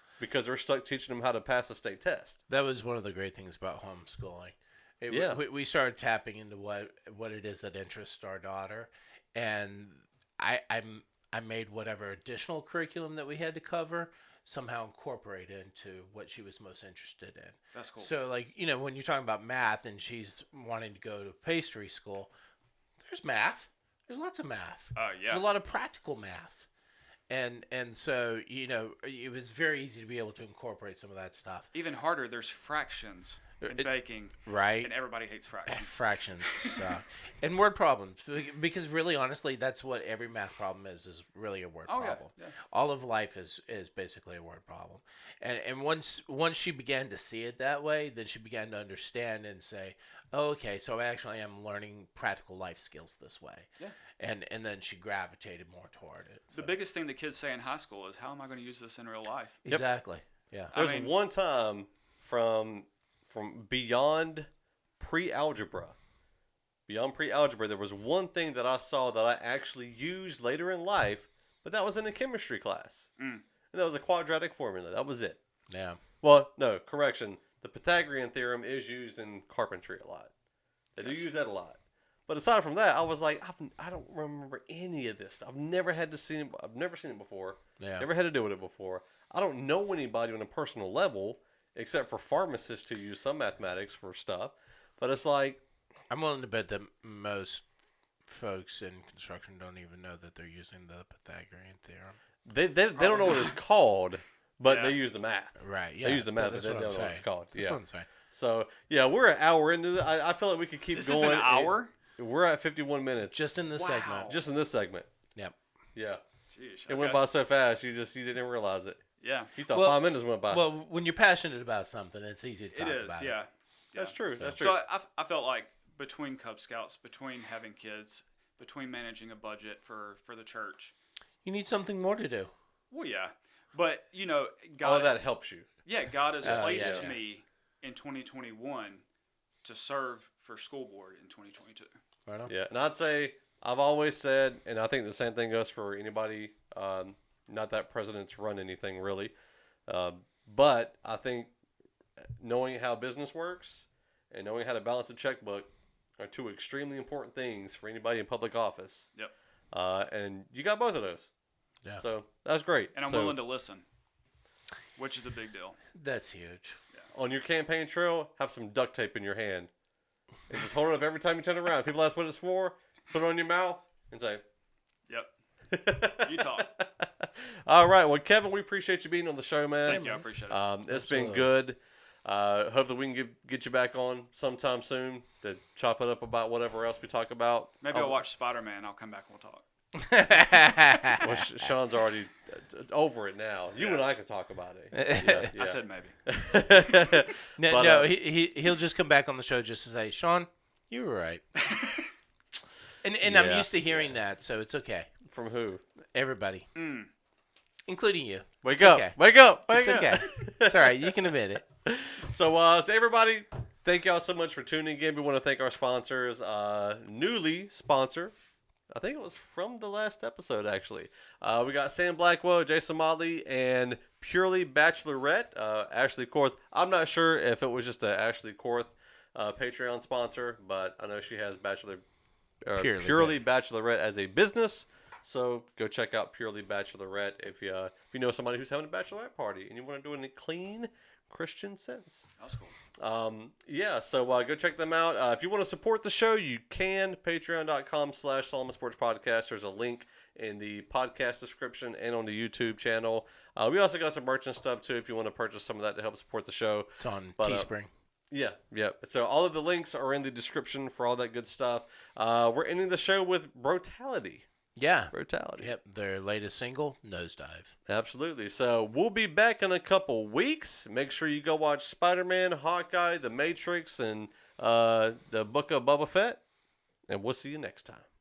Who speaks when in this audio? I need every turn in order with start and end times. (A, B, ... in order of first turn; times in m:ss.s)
0:00.2-0:02.4 A
0:02.5-0:22.3 B
0:05.1-0:05.4 A
0:17.7-0:18.1 C
0:23.0-0:26.7 B
0:24.9-0:25.4 C
0:27.3-0:31.7 B
0:31.7-0:36.8 C
0:33.6-0:33.9 B
0:34.4-0:34.9 B
0:35.6-0:56.7 B
0:41.9-0:42.6 C
0:56.5-0:59.6 C
0:59.6-1:00.7 B
1:00.7-1:01.1 C
1:00.7-1:04.5 A
1:05.0-1:06.0 A
1:06.9-1:13.1 A
1:13.2-1:13.4 C
1:13.7-1:15.4 A
1:15.7-1:16.0 B
1:16.2-1:20.3 A
1:21.0-1:35.6 A
1:21.0-1:21.3 C
1:27.8-1:28.1 B
1:36.1-1:37.6 B
1:38.2-1:42.2 B
1:42.4-1:53.7 A
1:43.0-1:43.5 C
1:44.6-1:45.0 C
1:45.6-1:48.1 B
1:50.9-1:51.9 C
1:53.3-1:54.4 B
1:53.7-1:54.4 C
1:54.2-1:55.1 A
1:55.9-1:56.2 A
1:56.5-1:57.2 C
1:56.9-1:59.0 A
1:59.2-1:59.5 C
1:59.6-2:00.7 A
1:59.7-2:03.4 B
2:02.7-2:10.9 C
2:04.0-2:04.8 A
2:04.3-2:04.7 B
2:11.4-2:12.5 B
2:12.9-2:15.2 C
2:14.8-2:15.7 A
2:15.8-2:19.0 C
2:16.4-2:17.1 A
2:16.4-2:17.2 B
2:19.6-2:22.0 C
2:22.2-2:22.5 B
2:22.5-2:29.3 A
2:29.9-2:31.5 A
2:32.4-2:39.1 A
2:39.7-2:41.3 A
2:42.0-2:43.4 A
2:42.9-2:43.8 C
2:45.0-2:45.8 C
2:45.9-2:46.8 B
2:47.1-2:49.7 A
2:50.5-2:54.4 A
2:55.7-3:08.2 A
2:56.1-2:56.7 C
2:59.8-3:00.6 C
2:59.9-3:00.2 B
3:00.9-3:01.5 B
3:07.8-3:09.6 C
3:10.0-3:11.4 B
3:11.2-3:18.1 A
3:13.8-3:14.0 C
3:14.9-3:15.5 B
3:15.5-3:16.2 C
3:17.6-3:21.4 B
3:21.6-3:22.1 C
3:23.0-3:25.1 B
3:23.2-3:24.2 A
3:25.3-3:25.8 A
3:26.1-3:26.7 B
3:26.7-3:27.1 C
3:27.9-3:31.6 B
3:28.6-3:31.1 A
3:31.8-3:38.3 A
3:38.9-3:52.0 A
3:52.6-4:02.3 A
3:52.8-3:53.4 B
4:02.4-4:02.7 C
4:03.0-4:17.7 A
4:17.0-4:17.9 B
4:18.3-4:24.5 A
4:24.8-4:27.8 B
4:25.1-4:25.7 A
4:27.9-4:36.4 A
4:37.1-4:38.0 A